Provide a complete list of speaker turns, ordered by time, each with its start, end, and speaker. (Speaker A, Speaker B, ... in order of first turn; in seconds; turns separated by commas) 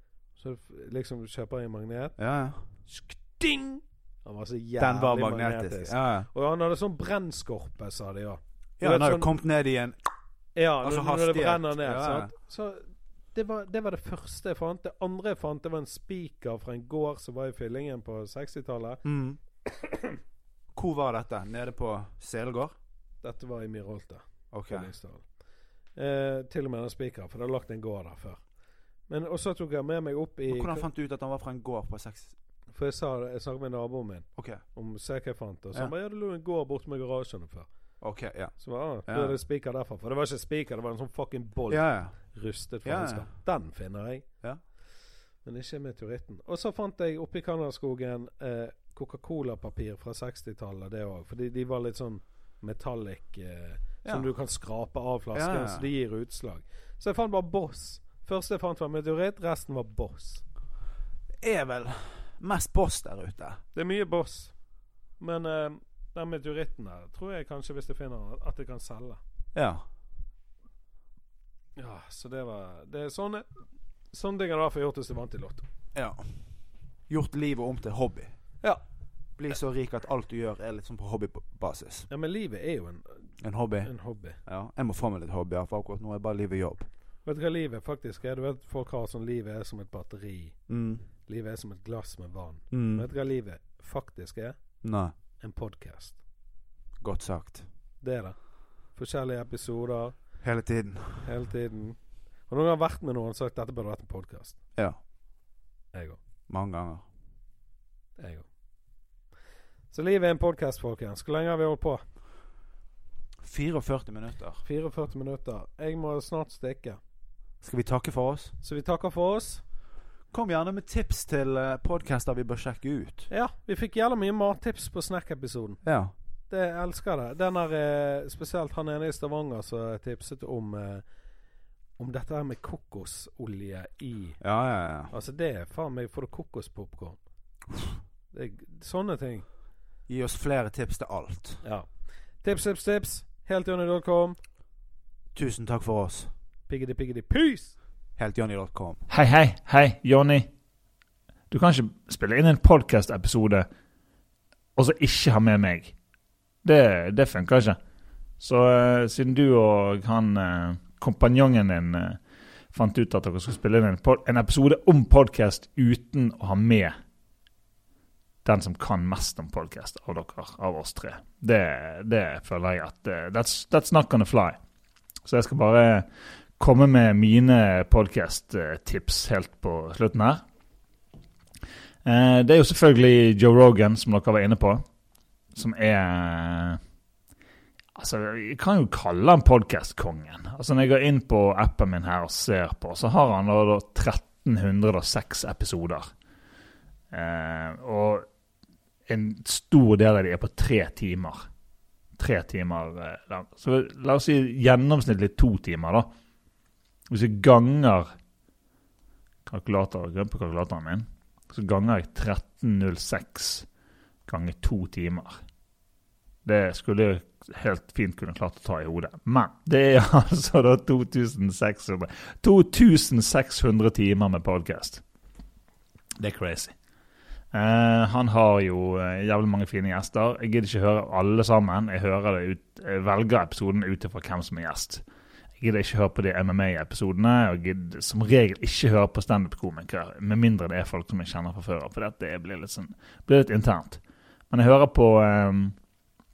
Speaker A: 0.4-2.2, Speaker B: 2.2-2.6, Speaker A: 2.9-9.3, Speaker B: 4.8-6.3, Speaker B: 8.8-10.0, Speaker A: 10.6-19.1, Speaker B: 10.8-12.3, Speaker B: 19.1-19.4, Speaker A: 19.7-20.2, Speaker B: 20.7-22.8, Speaker A: 23.2-25.2, Speaker B: 24.5-24.9, Speaker A: 26.0-28.4, Speaker A: 29.1-30.9, Speaker B: 30.5-32.3, Speaker A: 32.7-37.7, Speaker B: 34.4-34.6, Speaker B: 38.0-38.5, Speaker A: 38.6-44.3, Speaker B: 39.1-39.3, Speaker B: 41.7-42.1, Speaker B: 42.8-43.2, Speaker A: 45.4-60.4, Speaker B: 55.3-55.9, Speaker B: 61.4-63.6, Speaker A: 63.7-64.5, Speaker A: 65.2-69.2, Speaker B: 69.5-69.8, Speaker A: 71.8-73.5, Speaker A: 74.1-75.7, Speaker B: 76.0-76.3, Speaker B: 77.1-78.3, Speaker B: 79.4-82.1, Speaker A: 82.1-83.1, Speaker B: 83.4-83.9, Speaker A: 83.8-84.4, Speaker B: 84.5-86.9, Speaker A: 87.2-90.6, Speaker B: 90.7-91.0, Speaker A: 91.3-94.6, Speaker B: 92.7-93.0, Speaker B: 94.8-95.1, Speaker A: 95.4-96.2, Speaker B: 97.0-97.7, Speaker A: 98.0-98.4, Speaker A: 99.0-100.2, Speaker B: 100.4-101.3, Speaker A: 101.2-104.6, Speaker B: 106.5-107.0, Speaker A: 108.2-108.5, Speaker A: 109.9-112.0, Speaker B: 113.4-114.6, Speaker A: 114.6-117.0, Speaker B: 117.6-118.5, Speaker A: 118.6-119.6, Speaker B: 120.3-123.3, Speaker A: 123.3-125.8, Speaker B: 125.8-126.1, Speaker A: 126.5-131.0, Speaker A: 132.0-134.4, Speaker B: 134.4-135.1, Speaker A: 135.1-137.2, Speaker A: 138.3-139.4, Speaker B: 140.1-141.6, Speaker A: 141.6-141.9, Speaker A: 142.4-144.4, Speaker B: 145.3-146.3, Speaker A: 146.7-147.7, Speaker B: 148.2-149.0, Speaker C: 149.1-150.5, Speaker C: 151.5-153.7, Speaker C: 154.8-155.9, Speaker C: 156.6-157.8, Speaker C: 158.4-162.2, Speaker C: 162.7-167.0, Speaker C: 168.4-174.6, Speaker C: 175.2-176.1, Speaker C: 176.6-180.4, Speaker C: 182.1-184.8, Speaker C: 185.6-186.8, Speaker C: 188.0-196.1, Speaker C: 197.1-198.3, Speaker C: 199.1-201.5, Speaker C: 202.2-206.1, Speaker C: 207.1-208.1, Speaker C: 209.5-213.7, Speaker C: 214.3-215.4, Speaker C: 216.4-225.0, Speaker C: 226.2-226.7, Speaker C: 227.5-235.0, Speaker C: 235.6-244.0, Speaker C: 244.5-245.8